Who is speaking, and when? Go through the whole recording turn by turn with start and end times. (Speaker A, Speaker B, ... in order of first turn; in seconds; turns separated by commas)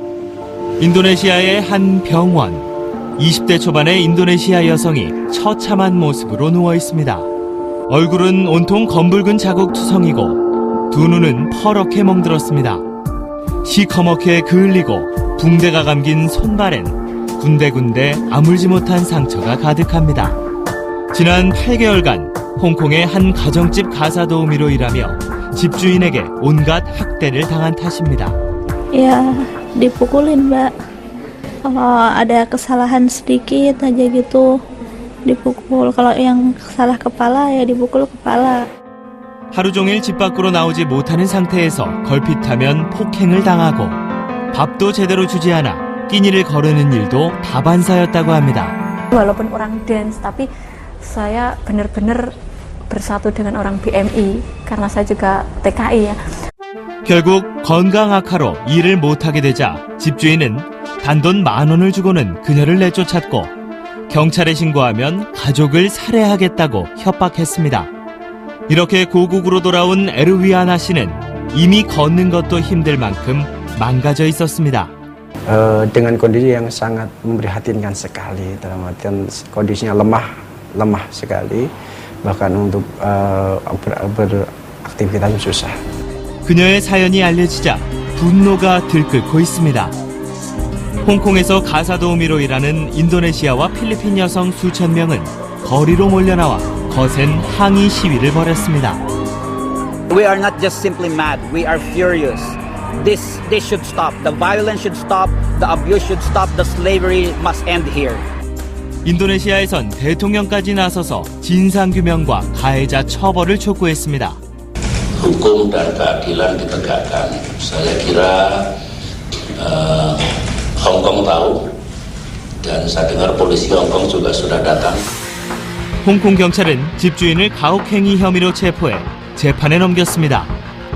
Speaker A: 0.8-7.3, Speaker A: 7.9-10.4, Speaker A: 10.9-12.8, Speaker A: 13.6-20.4, Speaker A: 21.1-28.4, Speaker B: 28.9-30.7, Speaker B: 31.6-34.6, Speaker B: 35.2-38.7, Speaker A: 39.5-44.0, Speaker A: 44.5-48.7, Speaker C: 49.1-50.5, Speaker C: 51.0-52.3, Speaker C: 52.9-56.2, Speaker A: 57.0-63.5, Speaker A: 64.1-67.9, Speaker A: 68.7-74.9, Speaker D: 75.5-81.7, Speaker D: 82.2-85.7, Speaker A: 86.4-89.9, Speaker A: 91.0-99.0, Speaker E: 100.1-108.3, Speaker A: 109.0-114.4, Speaker F: 115.2-118.6, Speaker F: 119.6-120.2, Speaker F: 120.8-121.6, Speaker F: 122.6-125.0, Speaker A: 126.0-130.5